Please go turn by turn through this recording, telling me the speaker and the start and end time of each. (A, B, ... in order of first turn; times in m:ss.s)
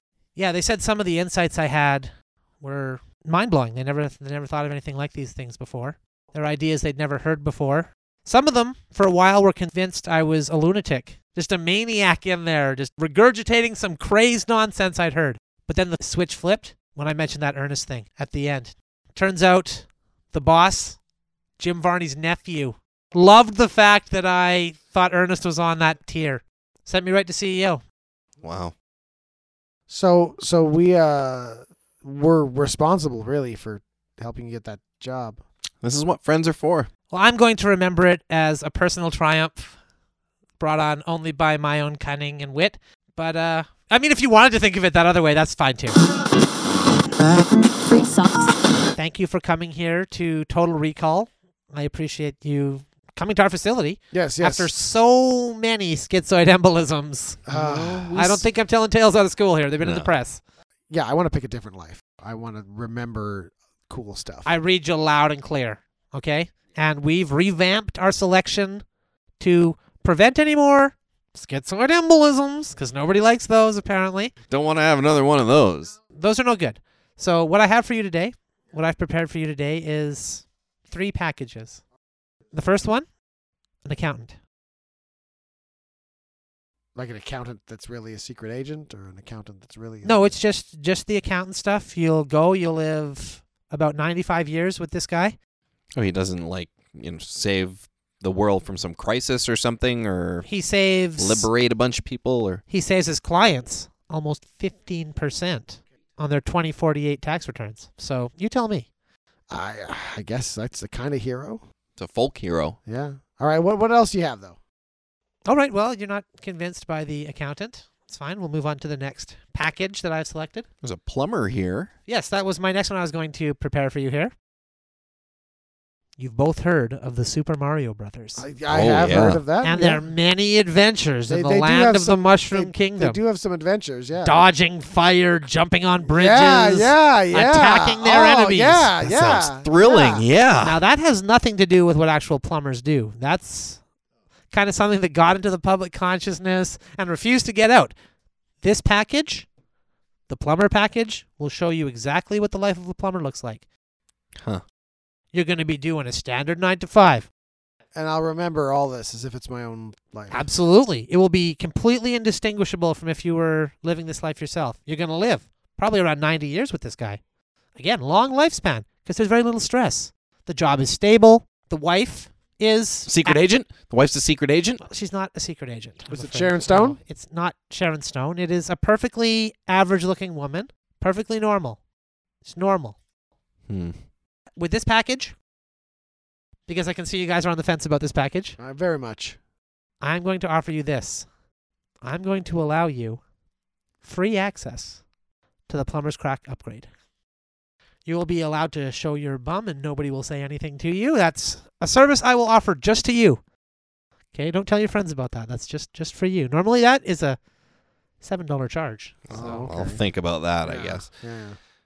0:00.4-0:21.0 A
0:21.6-0:27.8 A
0:28.4-0:28.7 B
0:29.9-0:35.4 C
0:35.8-0:36.9 B
0:37.1-0:39.7 A
0:40.6-0:46.0 A
0:48.9-0:57.4 A
0:54.1-0:54.7 C
0:57.5-0:58.2 C
0:57.5-0:58.4 B
0:58.2-1:00.4 A
0:59.8-1:00.1 B
1:00.9-1:04.5 C
1:04.4-1:08.8 A
1:09.4-1:14.3 A
1:14.5-1:16.0 B
1:16.1-1:21.8 A
1:22.5-1:23.1 A
1:23.8-1:24.4 A
1:27.0-1:30.3 C
1:30.0-1:35.4 A
1:36.0-1:40.5 B
1:40.4-1:41.5 A
1:41.2-1:42.6 B
1:42.7-1:48.9 A
1:49.5-1:51.6 C
1:52.0-1:52.8 B
1:52.9-1:54.6 C
1:55.5-2:00.7 A
2:00.8-2:01.9 B
2:02.1-2:04.3 A
2:06.2-2:08.4 A
2:08.4-2:10.0 C
2:08.7-2:09.4 B
2:09.6-2:13.2 A
2:11.3-2:14.5 C
2:14.2-2:19.0 A
2:16.1-2:20.2 C
2:19.0-2:20.8 B
2:20.6-2:23.8 A
2:24.5-2:27.9 A
2:28.6-2:29.5 A
2:30.3-2:33.6 A
2:35.3-2:37.3 A
2:37.9-2:40.4 C
2:40.3-2:47.2 A
2:47.8-2:53.4 A
2:53.1-2:54.8 B
2:54.8-3:01.8 A
2:56.1-2:57.0 C
3:02.4-3:03.0 A
3:03.7-3:04.0 B
3:04.6-3:05.3 A
3:06.7-3:08.6 A
3:08.6-3:09.4 C
3:10.0-3:11.3 A
3:12.0-3:13.2 A
3:14.0-3:15.0 A
3:15.7-3:16.9 A
3:18.0-3:23.4 A
3:24.3-3:27.4 A
3:28.2-3:29.6 A
3:29.3-3:31.1 B
3:29.3-3:30.0 C
3:30.6-3:31.6 C